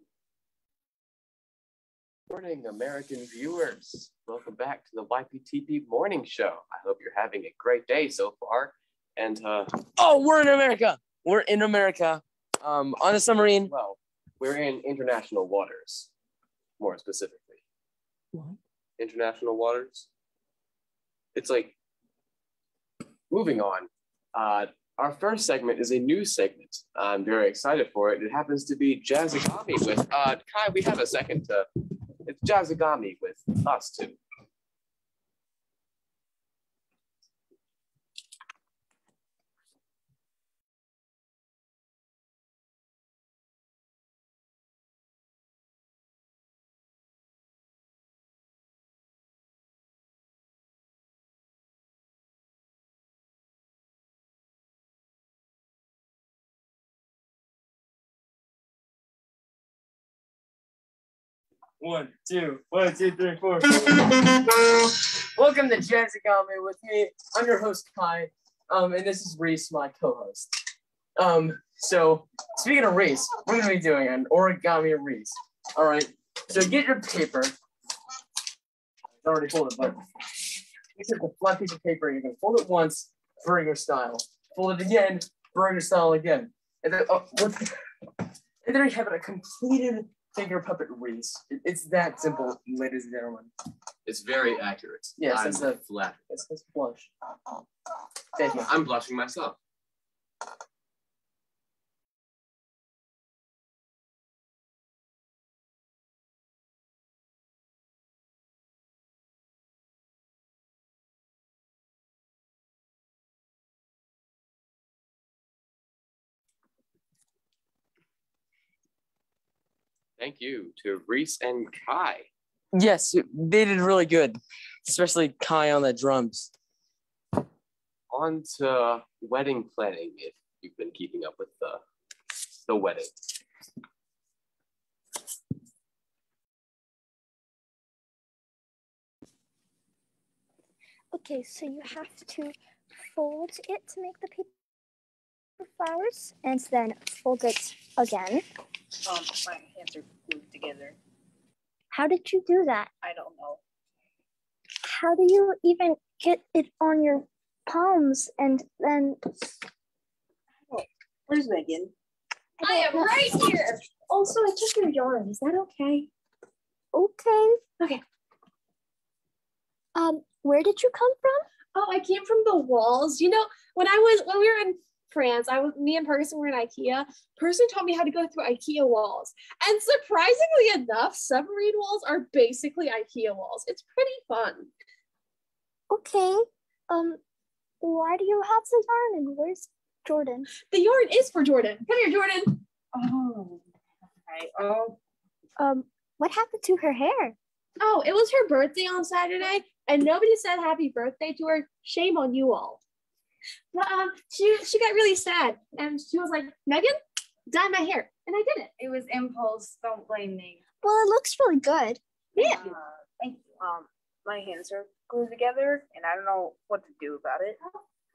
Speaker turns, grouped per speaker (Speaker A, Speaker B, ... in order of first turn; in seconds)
Speaker A: 2.3-9.7, 13.6-16.1, 16.8-17.6, 19.0-20.1, 21.4-21.8, 23.3-31.7, 32.2-34.2, 94.1-96.2, 98.5-99.6, 120.2-122.3, 128.1-131.8, 132.7-133.1
Speaker B: 10.0-13.7, 61.8-70.5, 71.2-77.5, 79.2-80.0, 81.0-87.7, 88.6-93.5, 95.2-97.1, 98.3-98.7, 122.7-126.5
Speaker C: 141.1-142.5, 143.1-144.5, 145.6-148.4, 151.9-152.9, 154.9-159.2, 162.6-163.3, 166.9-167.6, 169.9-171.4, 185.9-187.2, 187.8-190.5, 195.6-197.4, 210.8-212.6
Speaker D: 149.1-151.0, 153.0-153.6, 160.7-161.9, 192.9-193.6, 194.3-195.0, 208.8-210.6, 212.4-217.6
Speaker E: 162.7-163.5, 164.1-165.1, 171.8-173.2, 173.8-184.7, 199.1-202.7, 204.3-205.6, 207.5-208.1